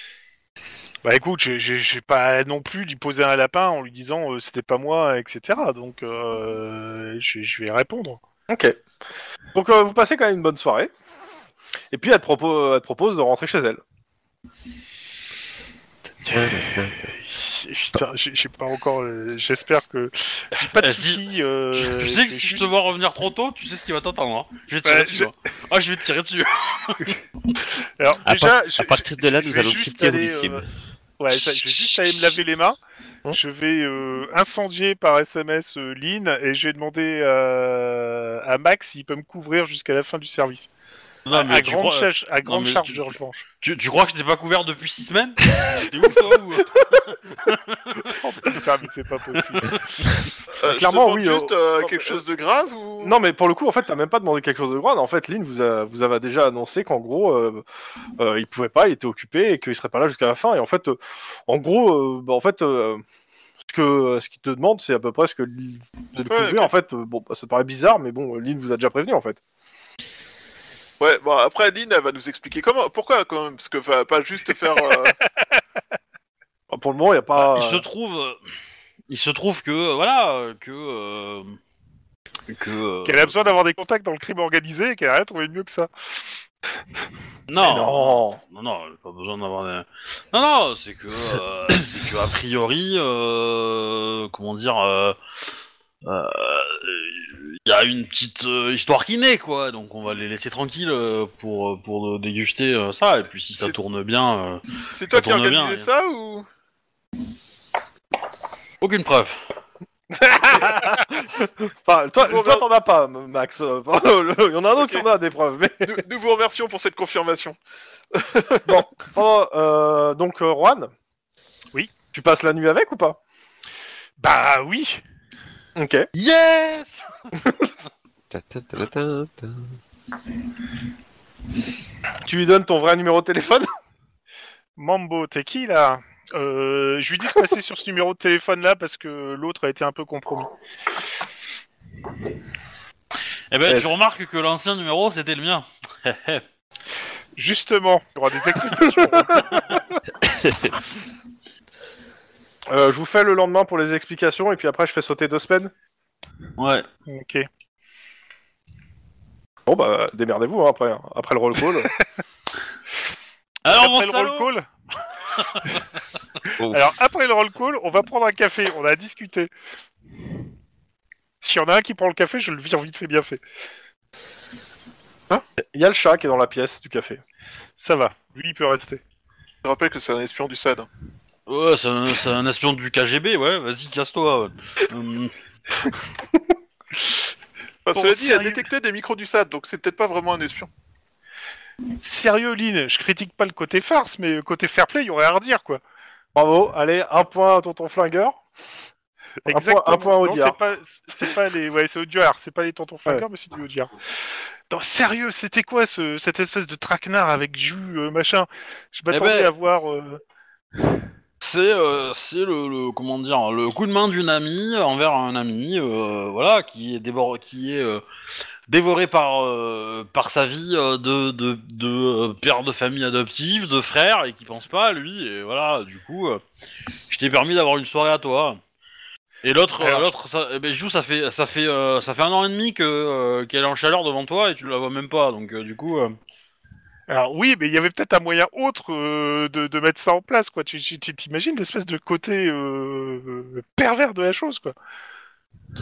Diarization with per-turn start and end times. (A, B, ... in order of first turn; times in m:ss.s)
0:01.0-0:08.2 A
0:08.5-0:08.8 B
0:09.6-0:10.9 B
0:11.9-0:13.8 B
0:16.3-0:22.7 A
0:20.8-0:21.2 C
0:21.7-0:27.2 C
0:24.8-0:25.3 A
0:28.0-0:30.6 A
0:28.2-0:30.6 D
0:31.2-0:32.8 A
0:33.3-0:40.7 A
0:41.3-0:48.2 C
0:41.3-0:43.4 A
0:48.0-0:49.8 A
0:49.5-0:49.8 C
0:50.6-0:53.2 E
0:50.6-0:52.2 B
0:53.0-0:57.6 B
0:58.2-1:03.0 B
1:03.7-1:09.4 B
1:06.3-1:06.7 E
1:11.0-1:15.2 E
1:16.7-1:17.9 B
1:17.4-1:18.5 C
1:19.1-1:21.6 C
1:22.5-1:23.5 C
1:23.0-1:25.9 A
1:27.5-1:35.2 C
1:27.6-1:28.4 B
1:36.0-1:45.9 C
1:44.9-1:46.5 E
1:48.8-1:49.4 C
1:50.1-1:56.0 B
1:52.2-1:52.6 E
1:54.8-1:55.1 E
1:55.8-1:57.6 E
1:58.1-1:58.7 E
1:58.6-2:00.9 B
2:02.1-2:03.2 B
2:04.2-2:05.0 A
2:05.8-2:06.1 B
2:06.2-2:07.1 C
2:07.4-2:07.7 B
2:08.3-2:09.8 D
2:12.2-2:13.7 B
2:14.8-2:20.5 A
2:23.5-2:26.4 C
2:27.4-2:29.4 A
2:29.0-2:29.4 B
2:32.7-2:35.7 B
2:36.6-2:36.9 C
2:37.1-2:37.5 A
2:39.7-2:41.9 B
2:43.6-2:44.5 C
2:43.7-2:44.7 A
2:46.6-2:46.9 D
2:46.7-2:49.5 A
2:51.4-2:53.4 A
2:55.7-2:57.2 B
2:57.8-2:59.0 A
2:59.6-3:00.9 E
3:01.5-3:05.3 C
3:07.9-3:10.7 E
3:07.9-3:08.7 A
3:12.0-3:15.8 A
3:16.4-3:18.4 B
3:19.4-3:23.9 A
3:19.5-3:20.6 B
3:24.7-3:30.2 A
3:29.1-3:29.5 C
3:31.4-3:38.0 C
3:38.7-3:46.4 C
3:47.1-3:48.6 C
3:49.4-3:56.2 C
3:49.8-3:50.1 A
3:57.1-4:04.8 A